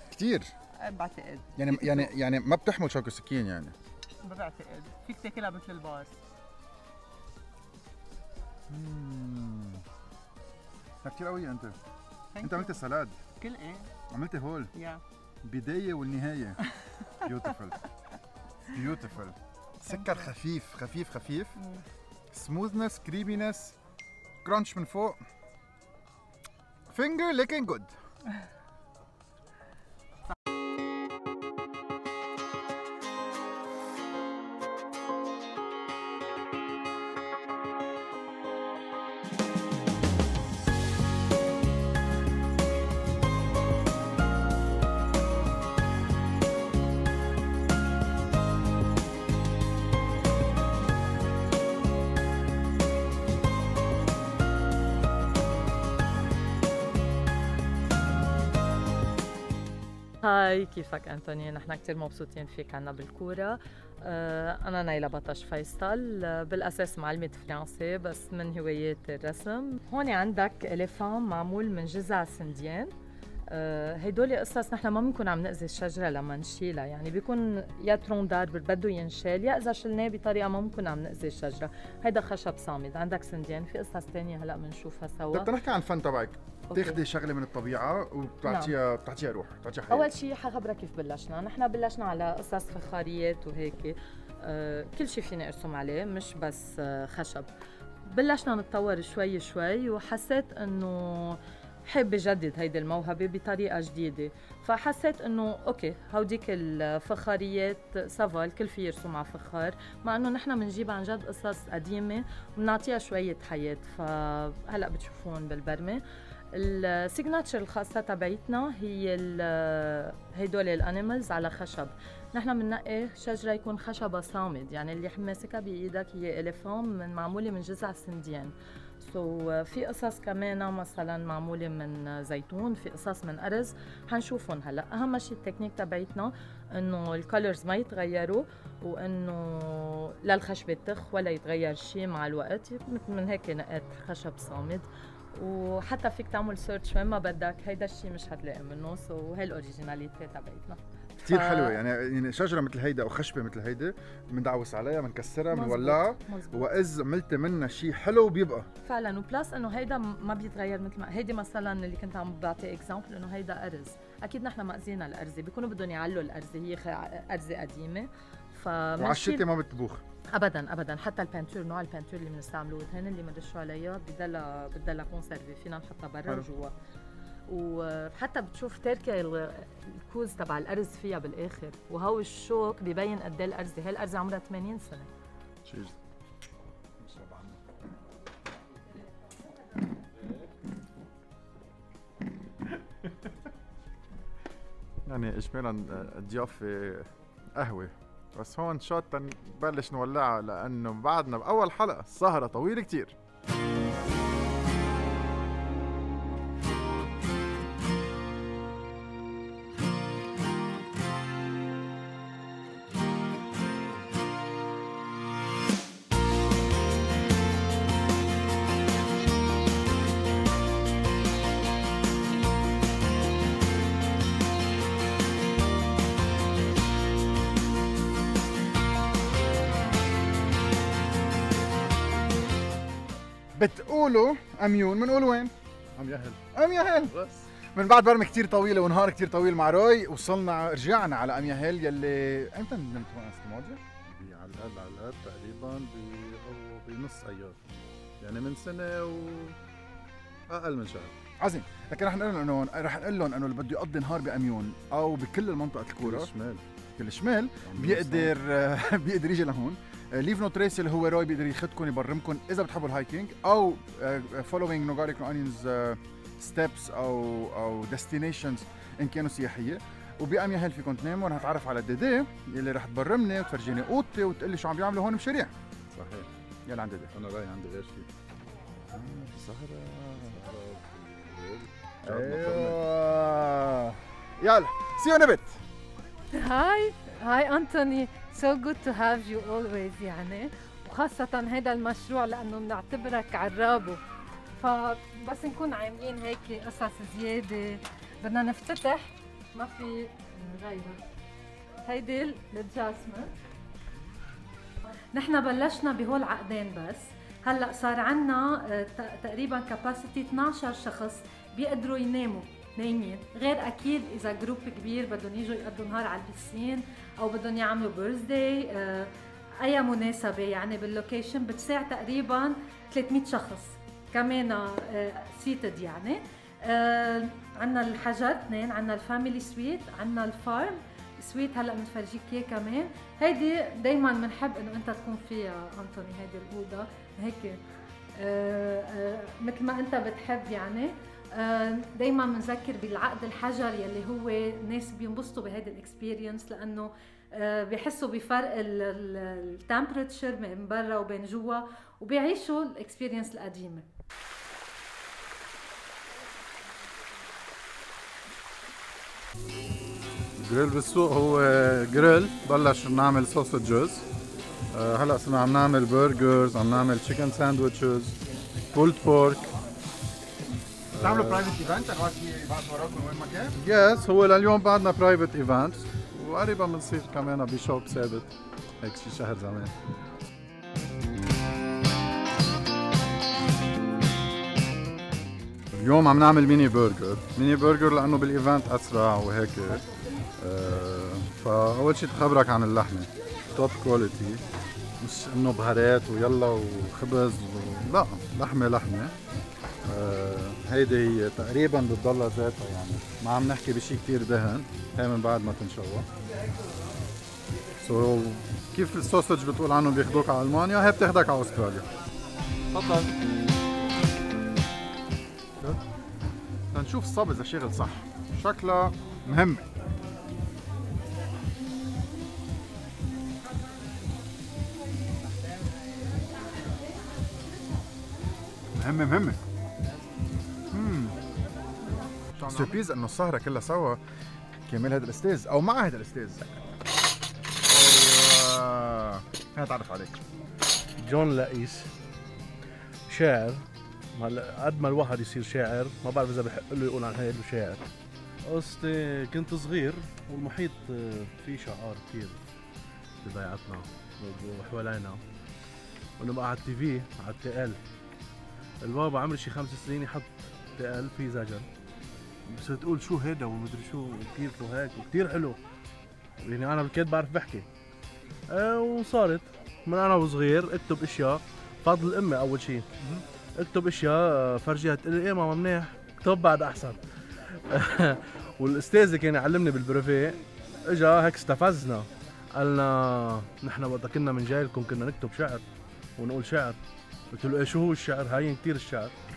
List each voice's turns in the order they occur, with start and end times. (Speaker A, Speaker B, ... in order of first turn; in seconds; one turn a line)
Speaker A: 0.1-0.5
Speaker B: 0.8-2.1
Speaker A: 1.6-3.7
Speaker B: 4.2-6.1
Speaker A: 8.7-9.8
Speaker A: 11.0-11.7
Speaker B: 12.3-12.8
Speaker A: 12.4-13.1
Speaker B: 13.4-13.8
Speaker A: 14.1-14.7
Speaker B: 14.7-15.0
Speaker A: 15.4-16.6
Speaker A: 17.2-17.8
Speaker A: 18.7-21.5
Speaker B: 19.9-20.2
Speaker A: 22.3-23.8
Speaker A: 24.4-25.2
Speaker A: 26.9-27.9
Speaker C: 60.2-72.9
Speaker C: 73.5-85.5
Speaker A: 85.3-90.1
Speaker C: 86.7-87.0
Speaker C: 88.4-88.7
Speaker C: 89.9-97.5
Speaker C: 98.1-116.0
Speaker C: 116.5-144.9
Speaker C: 145.4-151.8
Speaker A: 151.2-158.7
Speaker C: 155.5-156.7
Speaker C: 158.8-169.5
Speaker A: 169.0-170.0
Speaker C: 170.3-176.7
Speaker C: 177.5-185.1
Speaker D: 195.1-196.9
Speaker A: 197.6-197.9
Speaker A: 198.4-199.1
Speaker D: 199.0-201.5
Speaker A: 201.9-203.1
Speaker A: 233.6-235.5
Speaker E: 236.0-236.4
Speaker A: 236.5-237.2
Speaker A: 237.7-243.8
Speaker D: 244.4-247.5
Speaker D: 248.2-249.5
Speaker D: 250.5-251.1
Speaker A: 251.4-256.3
Speaker E: 256.0-256.6
Speaker A: 257.0-275.5
Speaker E: 257.7-258.3
Speaker E: 275.9-276.3
Speaker A: 276.6-277.1
Speaker E: 277.1-278.1
Speaker A: 278.9-280.3
Speaker E: 280.2-282.8
Speaker A: 282.1-285.5
Speaker F: 286.3-294.0
Speaker F: 294.6-301.0
Speaker F: 301.9-303.3
Speaker F: 304.9-337.6
Speaker F: 338.2-353.8
Speaker D: 360.4-364.0
Speaker D: 364.7-368.1
Speaker D: 368.7-369.5
Speaker A: 371.0-373.5
Speaker D: 371.0-371.4
Speaker D: 373.6-379.7
Speaker D: 385.7-389.8
Speaker D: 390.4-394.4
Speaker D: 395.0-399.1
Speaker D: 399.9-406.0
Speaker D: 407.8-411.9
Speaker A: 416.7-419.7
Speaker A: 428.7-429.4
Speaker A: 430.7-431.1
Speaker A: 432.4-434.0
Speaker A: 434.7-436.6
Speaker A: 437.7-440.2
Speaker G: 441.0-441.9
Speaker G: 443.1-443.6
Speaker G: 444.2-447.8
Speaker G: 448.5-452.4
Speaker G: 453.2-455.2
Speaker G: 456.2-457.8
Speaker G: 458.8-461.6
Speaker G: 462.5-465.6
Speaker G: 466.4-467.6
Speaker G: 468.5-472.8
Speaker G: 473.6-477.0
Speaker G: 477.7-480.4
Speaker G: 480.9-485.6
Speaker G: 486.2-486.8
Speaker G: 487.3-489.1